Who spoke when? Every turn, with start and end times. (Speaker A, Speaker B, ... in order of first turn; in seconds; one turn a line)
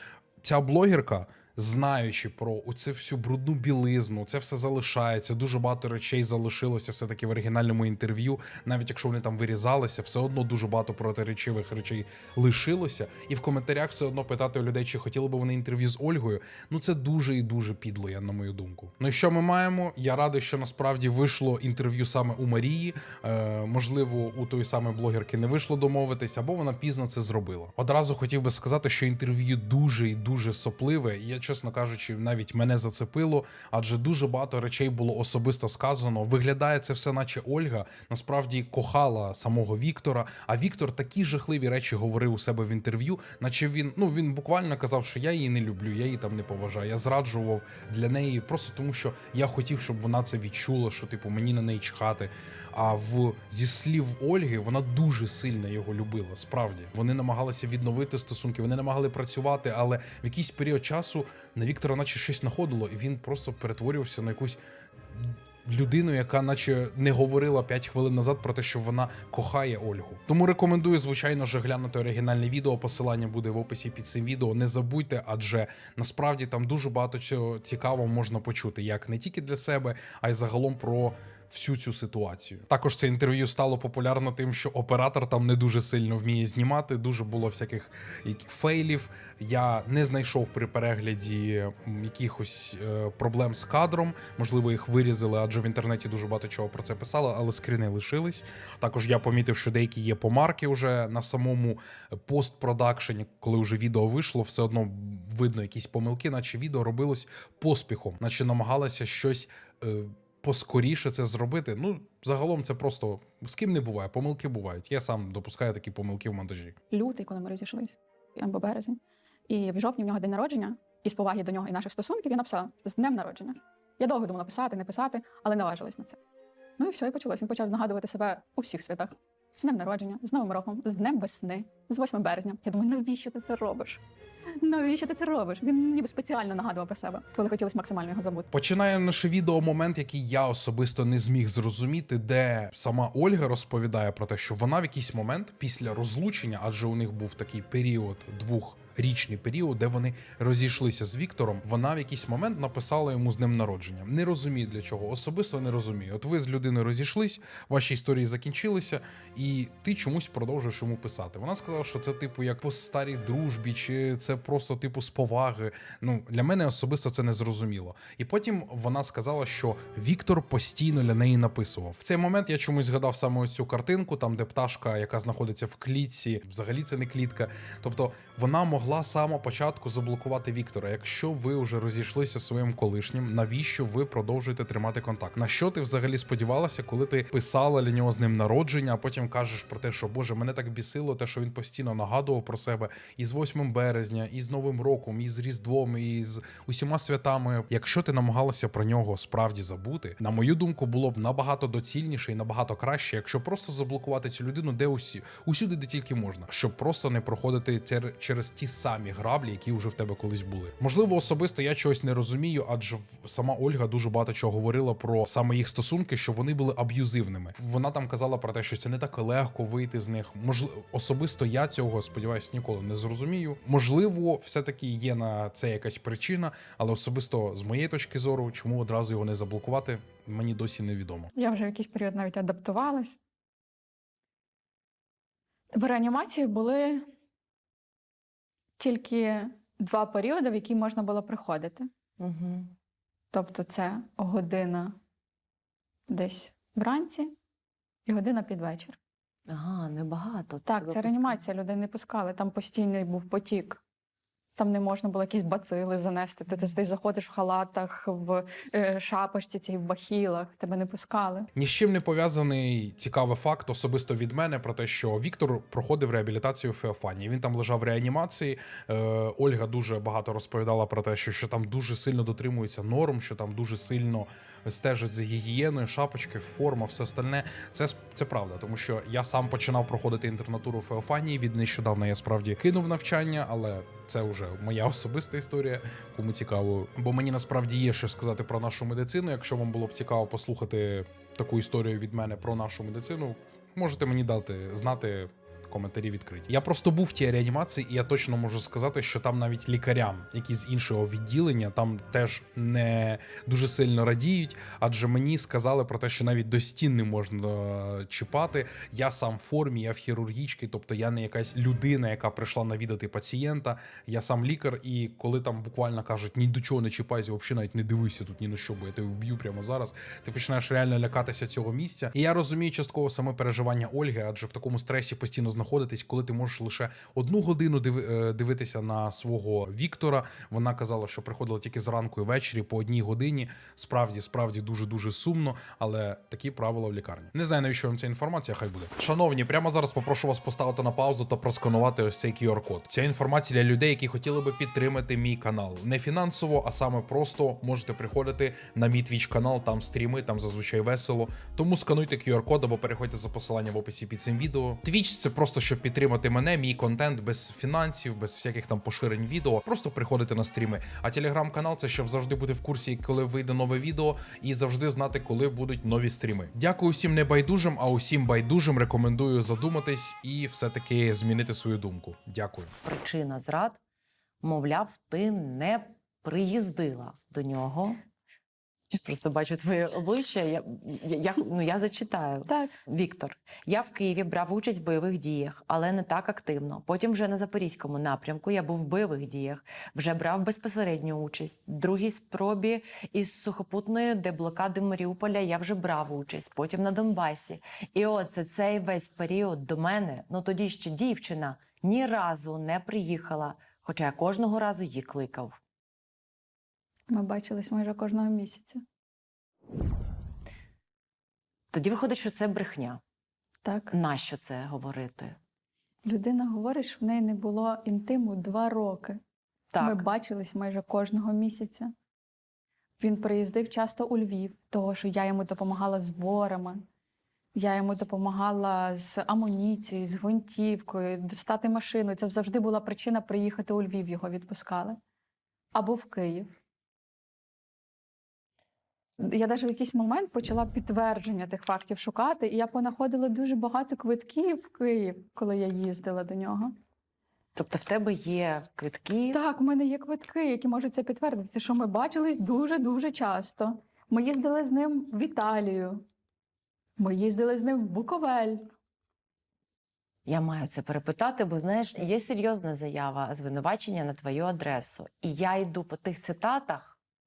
Speaker A: 0.4-64.6
Speaker A: 65.1-116.8
Speaker B: 116.9-126.2
Speaker B: 126.8-134.0
Speaker B: 134.6-138.5
Speaker A: 138.5-231.3
Speaker B: 231.3-233.2
Speaker B: 235.7-237.1
Speaker B: 238.8-241.9
Speaker C: 242.2-242.7
Speaker B: 243.3-245.0
Speaker B: 246.1-247.3
Speaker B: 248.1-249.0
Speaker C: 249.5-251.4
Speaker B: 250.7-253.8
Speaker B: 254.6-261.5
Speaker A: 261.5-372.7
Speaker C: 372.8-373.8
Speaker C: 374.4-378.0
Speaker C: 378.9-405.6
Speaker B: 382.5-382.7
Speaker B: 407.1-408.8
Speaker C: 411.7-413.0
Speaker B: 413.6-413.9
Speaker C: 413.9-415.4
Speaker B: 416.0-419.2
Speaker C: 419.7-420.1
Speaker B: 419.8-421.9
Speaker B: 423.0-426.8
Speaker B: 427.5-435.0
Speaker B: 435.7-436.5
Speaker B: 439.2-446.7
Speaker C: 447.5-449.4
Speaker B: 449.3-456.0
Speaker B: 457.0-458.7
Speaker C: 460.2-467.0